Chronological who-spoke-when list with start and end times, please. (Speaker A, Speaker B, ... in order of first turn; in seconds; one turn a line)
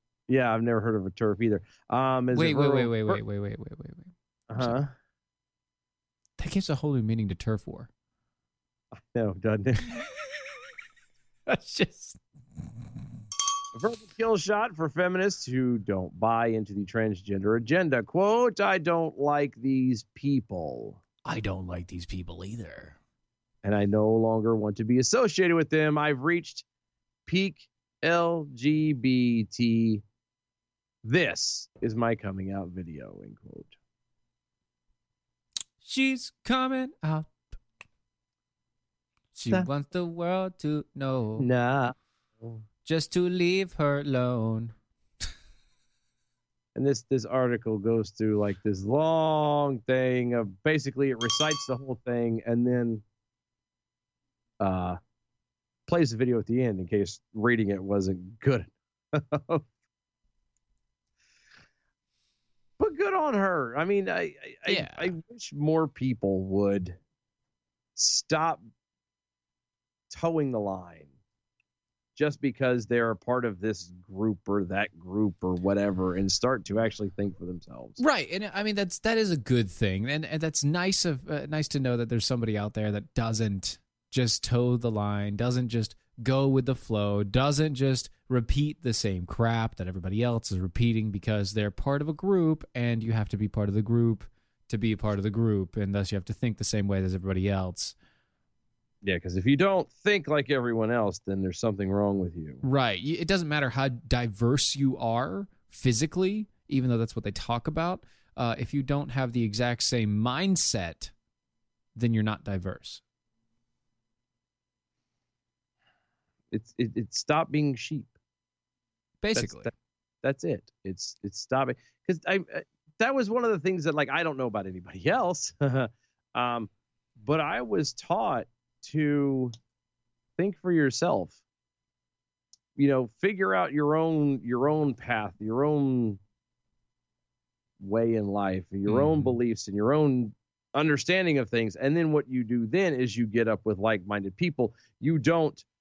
Speaker A: 0.3-3.2
Speaker B: 2.3-4.8
Speaker A: 4.5-4.9
Speaker B: 6.4-7.9
Speaker A: 9.0-9.9
Speaker B: 11.5-12.2
Speaker A: 13.7-21.0
Speaker B: 21.2-23.0
Speaker A: 23.6-26.6
Speaker A: 27.3-30.0
Speaker A: 31.0-33.7
Speaker B: 35.8-37.3
Speaker B: 39.4-41.5
Speaker A: 41.4-42.6
Speaker B: 42.9-44.7
Speaker A: 46.8-53.0
Speaker A: 54.6-55.0
Speaker A: 55.9-59.6
Speaker A: 62.8-67.0
Speaker B: 64.7-65.1
Speaker A: 68.0-68.6
Speaker A: 70.1-71.1
Speaker A: 72.2-78.0
Speaker B: 78.0-98.0
Speaker A: 99.0-102.6
Speaker B: 102.6-111.1
Speaker B: 112.0-113.0
Speaker A: 116.5-118.2
Speaker B: 119.2-119.7
Speaker A: 119.4-119.7
Speaker A: 120.2-126.7
Speaker A: 127.2-129.5
Speaker A: 130.4-131.4
Speaker A: 132.8-136.2
Speaker A: 137.8-145.7
Speaker B: 138.9-139.4